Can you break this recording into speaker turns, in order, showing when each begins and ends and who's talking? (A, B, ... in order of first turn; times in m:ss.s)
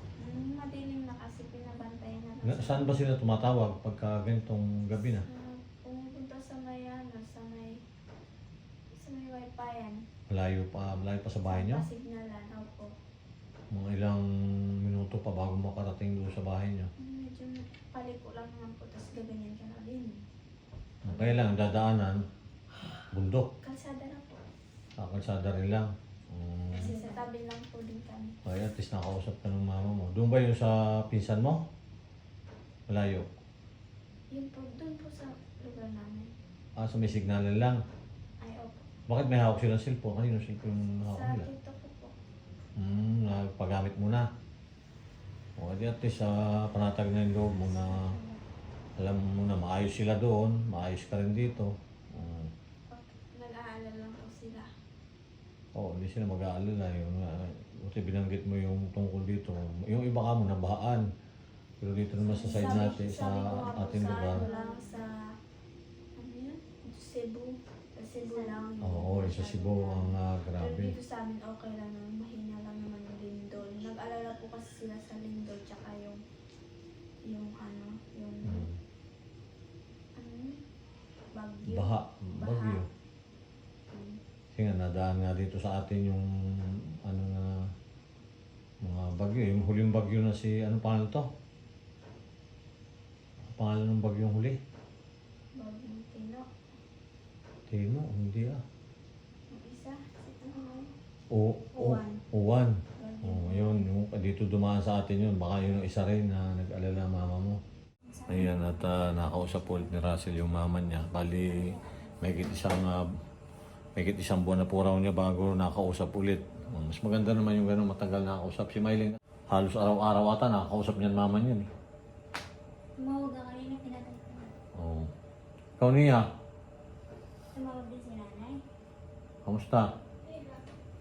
0:00.2-0:02.9 A
0:02.5-0:05.2 B
0:05.2-0:07.8 A
0:09.0-0:10.0 A
0:10.3-0:11.9 B
0:11.5-0:12.9 A
0:13.7-0:14.2 B
0:14.8-0:16.9 B
0:17.0-0:20.2 A
0:21.0-0:22.2 B
0:21.1-0:21.4 A
0:23.1-0:23.5 B
0:23.6-0:24.4 A
0:25.0-0:27.0 B
0:26.7-0:28.3 A
0:28.4-0:31.6 B
0:32.9-0:33.3 B
0:34.3-0:36.3 A
0:36.8-0:37.8 B
0:38.4-0:38.8 A
0:39.1-0:41.5 B
0:41.1-0:42.2 A
0:42.8-0:44.2 B
0:45.6-0:48.0 B
0:49.0-0:52.5 B
0:52.9-0:54.7 A
0:55.7-1:01.0 B
1:01.8-1:04.4 B
1:02.3-1:05.0 A
1:02.4-1:02.7 C
1:04.4-1:04.8 C
1:06.2-1:16.2 A
1:08.2-1:08.5 C
1:08.8-1:10.9 B
1:17.3-1:18.6 A
1:18.4-1:18.8 B
1:20.2-1:20.6 A
1:21.3-1:22.8 A
1:21.7-1:22.8 B
1:23.9-1:24.2 A
1:24.5-1:26.2 B
1:27.0-1:27.6 B
1:28.8-1:31.3 B
1:33.5-1:34.6 B
1:35.6-1:36.4 A
1:37.7-1:38.6 B
1:39.5-1:40.9 A
1:41.3-1:47.6 B
1:43.0-1:43.9 A
1:48.1-1:48.7 C
1:48.3-1:51.7 B
1:51.5-1:51.8 C
1:52.2-1:53.0 B
1:54.0-2:01.6 B
2:03.0-2:04.5 C
2:04.8-2:05.1 B
2:05.8-2:06.2 B
2:07.5-2:08.6 C
2:09.4-2:09.9 B